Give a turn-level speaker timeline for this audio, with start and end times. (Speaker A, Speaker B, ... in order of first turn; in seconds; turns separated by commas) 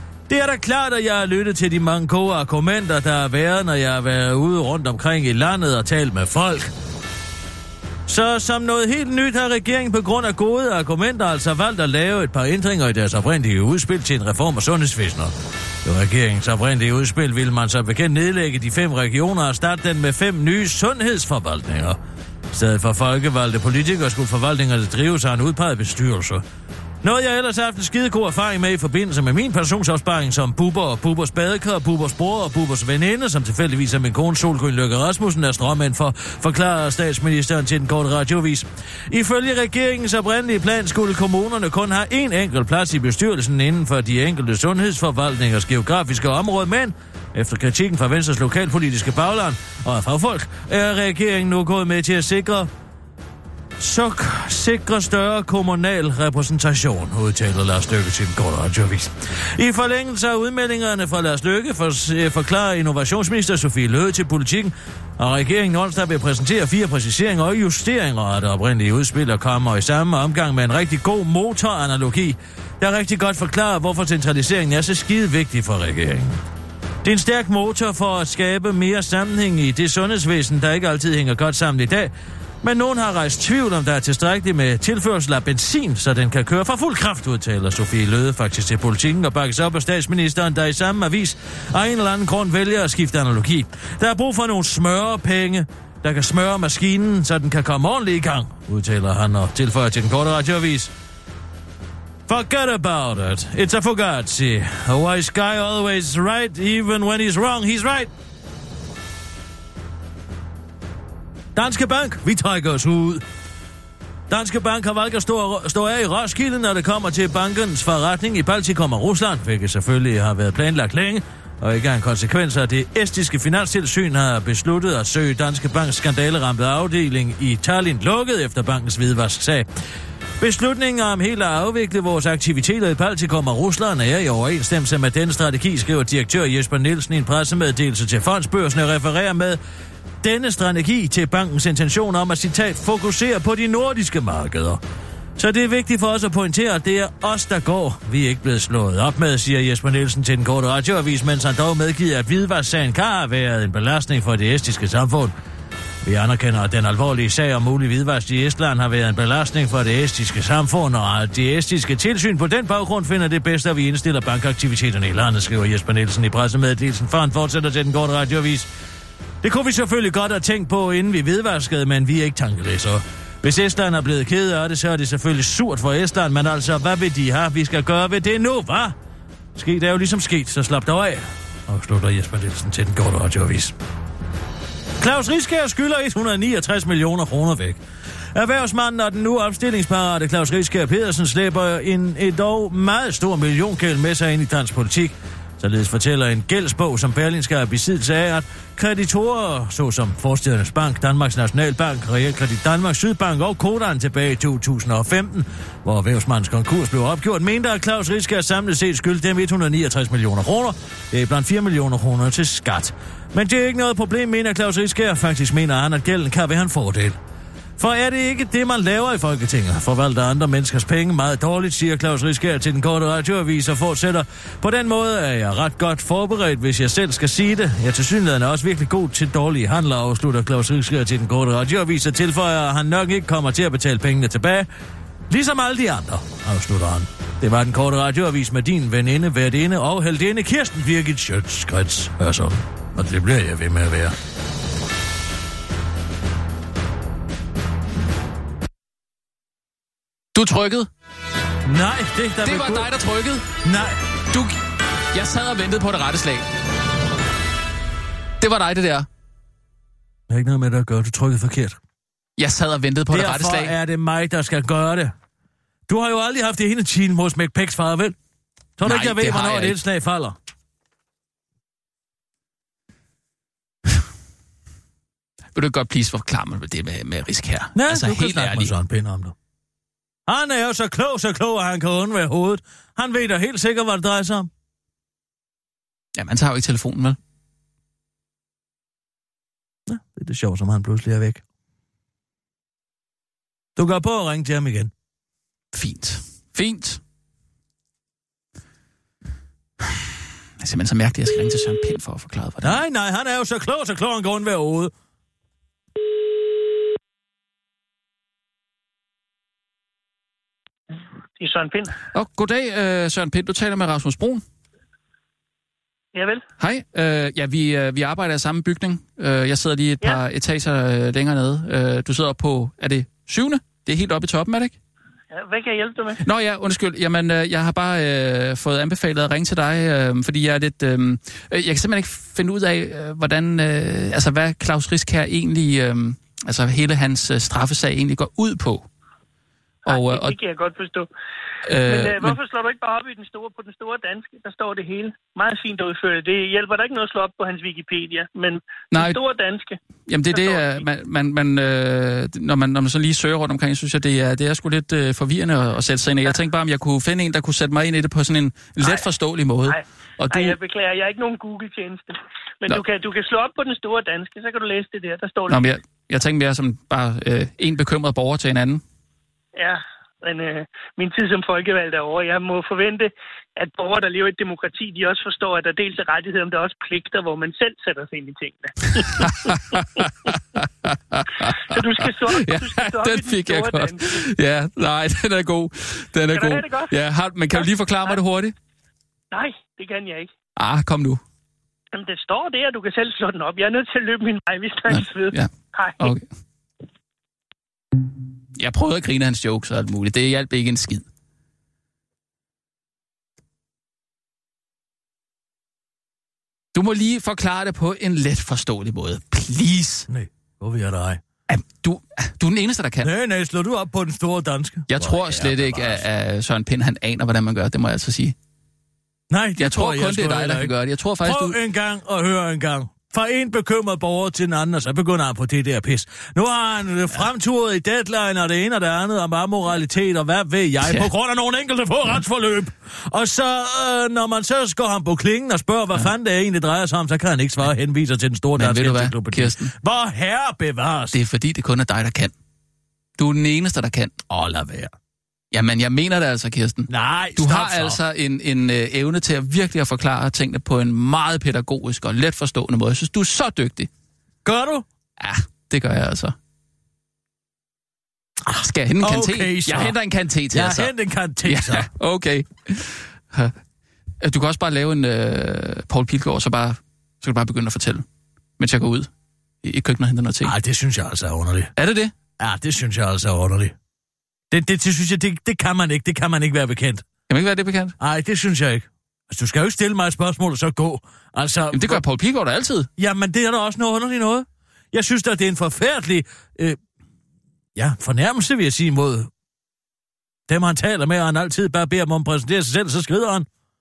Speaker A: 0.3-6.7, Speaker A: 8.1-22.0, Speaker A: 22.5-26.4, Speaker A: 27.0-52.7, Speaker A: 53.8-76.4, Speaker A: 77.0-100.9, Speaker A: 102.3-108.1, Speaker A: 111.5-113.2, Speaker A: 114.3-129.7, Speaker A: 130.4-139.6, Speaker A: 140.2-144.8, Speaker A: 145.4-155.3, Speaker A: 156.0-168.7, Speaker A: 169.4-179.0, Speaker A: 179.6-183.8, Speaker A: 185.0-187.8, Speaker A: 188.3-217.2, Speaker A: 217.8-234.7, Speaker A: 235.3-244.2, Speaker B: 250.3-250.9, Speaker A: 251.7-252.9, Speaker B: 252.4-253.5, Speaker A: 253.6-254.0, Speaker B: 254.3-254.6, Speaker B: 255.1-256.5, Speaker B: 258.4-259.1, Speaker A: 260.3-261.8, Speaker B: 262.4-263.8, Speaker A: 263.1-265.1, Speaker A: 265.9-268.2, Speaker A: 268.8-270.4, Speaker B: 268.9-269.8, Speaker B: 275.5-278.7, Speaker A: 277.8-279.3, Speaker A: 280.3-284.5, Speaker B: 286.2-287.2, Speaker A: 289.9-291.4, Speaker A: 293.8-294.9, Speaker B: 295.7-297.0, Speaker B: 299.8-302.8, Speaker A: 302.6-304.9, Speaker C: 311.4-312.0, Speaker B: 312.1-314.4, Speaker C: 316.1-316.4, Speaker B: 316.6-324.8, Speaker C: 325.3-326.2, Speaker B: 326.2-338.9, Speaker B: 339.9-340.4, Speaker C: 339.9-341.1, Speaker B: 341.6-342.4, Speaker C: 341.9-349.8, Speaker B: 348.9-349.2, Speaker B: 350.1-360.6, Speaker C: 350.3-350.8, Speaker C: 359.7-365.6, Speaker B: 365.5-368.8, Speaker C: 369.6-380.0, Speaker B: 378.9-388.5, Speaker C: 381.5-384.2, Speaker C: 386.3-386.9, Speaker C: 387.5-388.2, Speaker C: 389.3-390.3, Speaker B: 390.6-391.2, Speaker C: 391.9-396.1, Speaker B: 394.9-396.3, Speaker B: 398.6-401.1, Speaker B: 406.8-410.1, Speaker A: 410.1-411.2, Speaker B: 411.5-413.1, Speaker A: 413.0-416.0, Speaker B: 414.9-418.4, Speaker A: 419.3-441.2, Speaker B: 419.6-421.6, Speaker B: 438.6-439.7, Speaker B: 441.1-442.3, Speaker B: 443.2-444.1, Speaker A: 444.3-444.9, Speaker B: 445.5-453.9, Speaker A: 446.9-448.0, Speaker A: 454.4-454.9, Speaker B: 455.2-456.4, Speaker B: 458.5-460.9, Speaker A: 459.0-460.0, Speaker A: 460.5-461.9, Speaker B: 461.4-463.5, Speaker B: 464.2-468.1, Speaker B: 468.6-469.1, Speaker B: 469.6-470.6, Speaker A: 470.4-471.7, Speaker B: 471.8-472.1, Speaker A: 472.4-473.8, Speaker A: 474.5-477.1, Speaker B: 477.3-477.9, Speaker A: 478.0-482.0, Speaker B: 481.7-482.9, Speaker A: 483.0-486.8, Speaker A: 487.8-489.3, Speaker A: 490.5-493.5